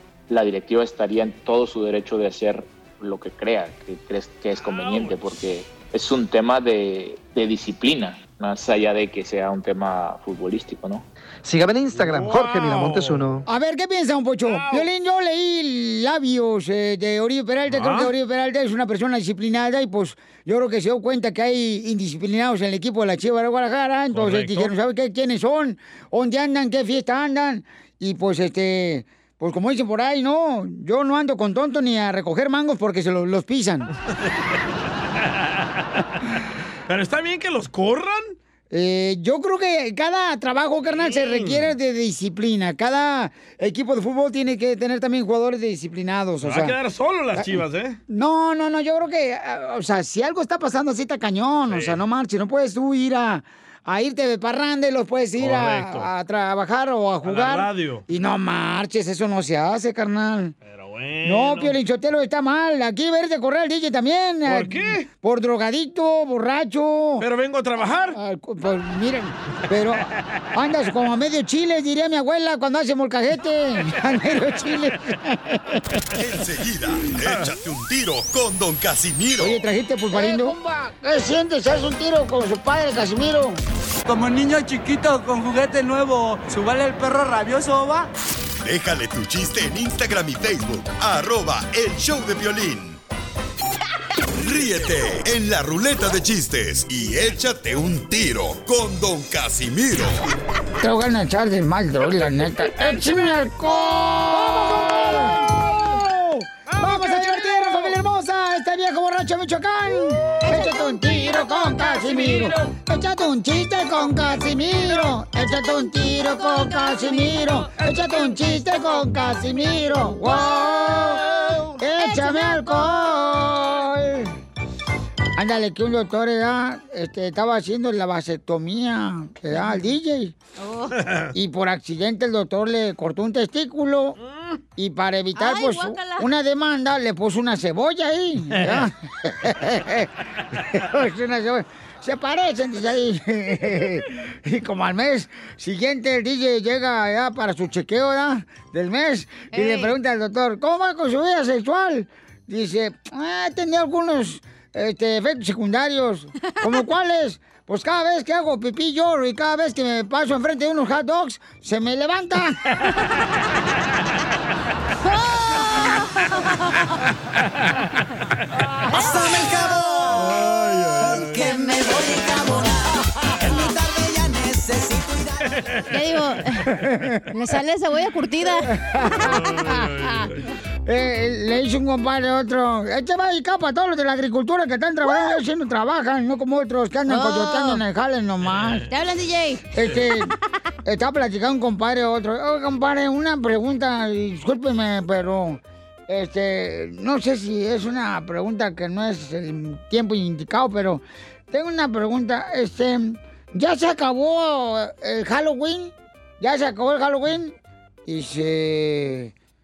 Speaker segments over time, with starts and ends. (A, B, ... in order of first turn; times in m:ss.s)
0:00.3-0:11.0 A
0:04.6-0:05.2 B
0:11.4-0:13.4 C
0:11.9-0:13.3 B
0:13.4-0:33.9 D
0:14.4-0:14.9 B
0:17.7-0:18.1 B
0:24.1-0:24.7 B
0:35.2-0:35.8 B
0:36.9-0:38.4 B
0:38.7-0:46.8 D
0:40.9-0:41.7 B
0:46.4-0:48.0 B
0:47.4-1:00.5 D
0:51.7-0:52.0 B
0:55.4-0:56.1 B
0:57.2-0:58.0 B
1:00.6-1:01.8 B
1:01.2-1:07.2 D
1:04.4-1:05.1 B
1:07.2-1:08.2 B
1:08.1-1:15.8 D
1:16.1-1:19.6 E
1:19.4-1:23.6 D
1:24.0-1:28.1 F
1:28.6-1:33.0 E
1:34.4-1:40.3 E
1:40.8-2:04.3 D
1:44.7-1:46.0 B
1:46.7-1:47.9 B
1:51.0-1:52.6 B
1:55.4-2:01.1 G
2:01.9-2:03.3 G
2:05.4-2:10.3 D
2:10.6-2:11.0 G
2:11.0-2:11.3 B
2:11.3-2:14.2 D
2:14.2-2:14.6 B
2:14.8-2:42.6 D
2:15.3-2:16.3 G
2:18.5-2:18.8 B
2:29.5-2:29.9 G
2:36.4-2:36.7 G
2:45.0-2:46.8 G
2:48.9-2:50.2 G
2:48.9-2:50.4 H
2:50.4-2:51.1 B
2:51.0-2:55.5 H
2:51.3-2:51.8 G
2:55.9-2:56.6 G
2:56.6-2:57.2 D
2:57.3-2:58.7 G
2:58.6-3:00.3 D
2:59.3-3:00.4 B
3:00.8-3:08.8 D
3:07.1-3:07.8 G
3:08.9-3:09.7 G
3:09.7-3:10.3 D
3:10.8-3:29.3 D